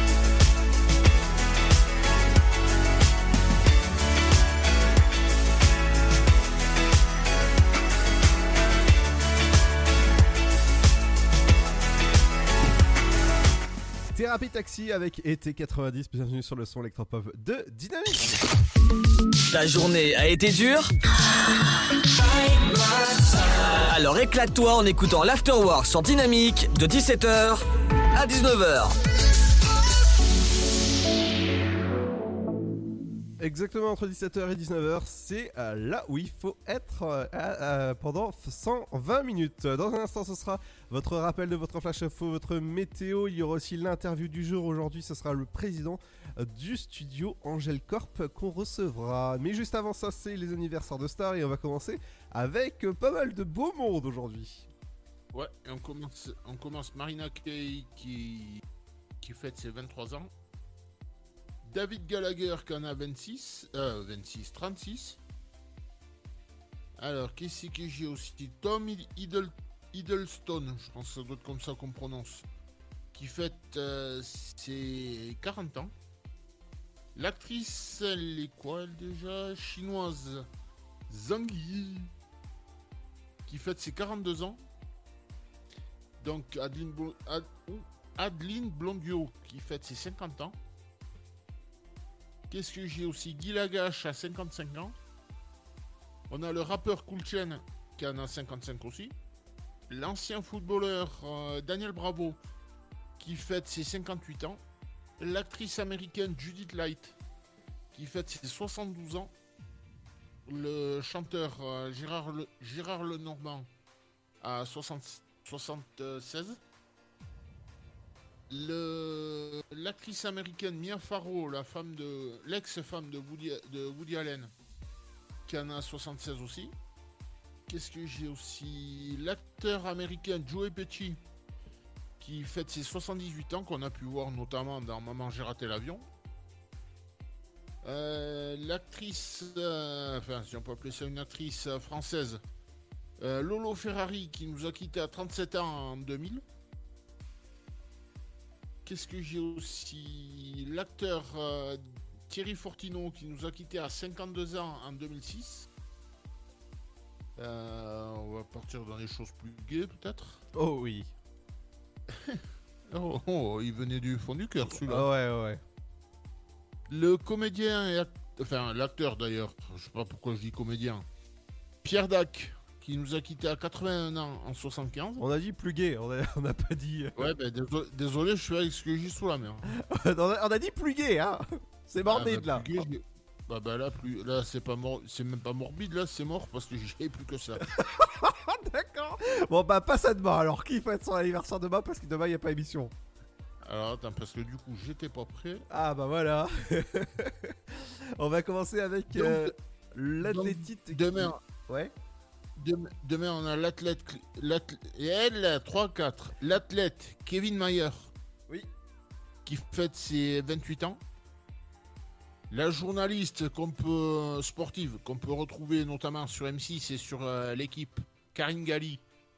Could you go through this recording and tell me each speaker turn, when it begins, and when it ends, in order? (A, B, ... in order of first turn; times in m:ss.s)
0:14.1-0:18.3 A
0:19.5-0:20.9 B
0:23.7-0:29.0 B
0:33.4-0:54.7 A
0:55.3-0:58.6 C
0:59.2-1:00.3 C
1:01.6-1:05.2 C
1:07.0-1:12.4 C
1:13.1-1:15.9 C
1:17.2-1:20.5 C
1:21.1-1:22.1 C
1:23.5-1:24.6 C
1:26.2-1:30.6 C
1:32.5-1:35.0 C
1:36.3-1:39.1 C
1:39.9-1:42.4 C
1:43.2-1:44.6 C
1:45.2-1:47.2 C
1:47.9-1:49.3 C
1:50.5-1:53.7 C
1:54.4-1:56.6 C
1:58.5-2:04.5 C
2:05.5-2:06.7 C
2:07.7-2:11.2 C
2:12.2-2:16.0 C
2:17.8-2:22.4 C
2:23.2-2:26.4 C
2:28.8-2:35.7 C
2:37.4-2:40.4 C
2:40.6-2:41.1 A
2:42.1-2:45.0 C
2:44.8-2:45.6 A
2:46.9-2:51.1 C
2:51.8-2:55.2 C
2:55.2-2:57.2 A
2:57.2-2:59.6 C
2:59.8-3:02.8 A
3:02.1-3:07.6 C
3:07.7-3:12.9 A
3:13.6-3:15.6 C
3:15.7-3:17.3 A
3:18.2-3:21.9 A
3:19.2-3:19.5 C
3:20.3-3:21.4 C
3:22.6-3:28.1 C
3:29.4-3:31.0 C
3:32.5-3:39.0 C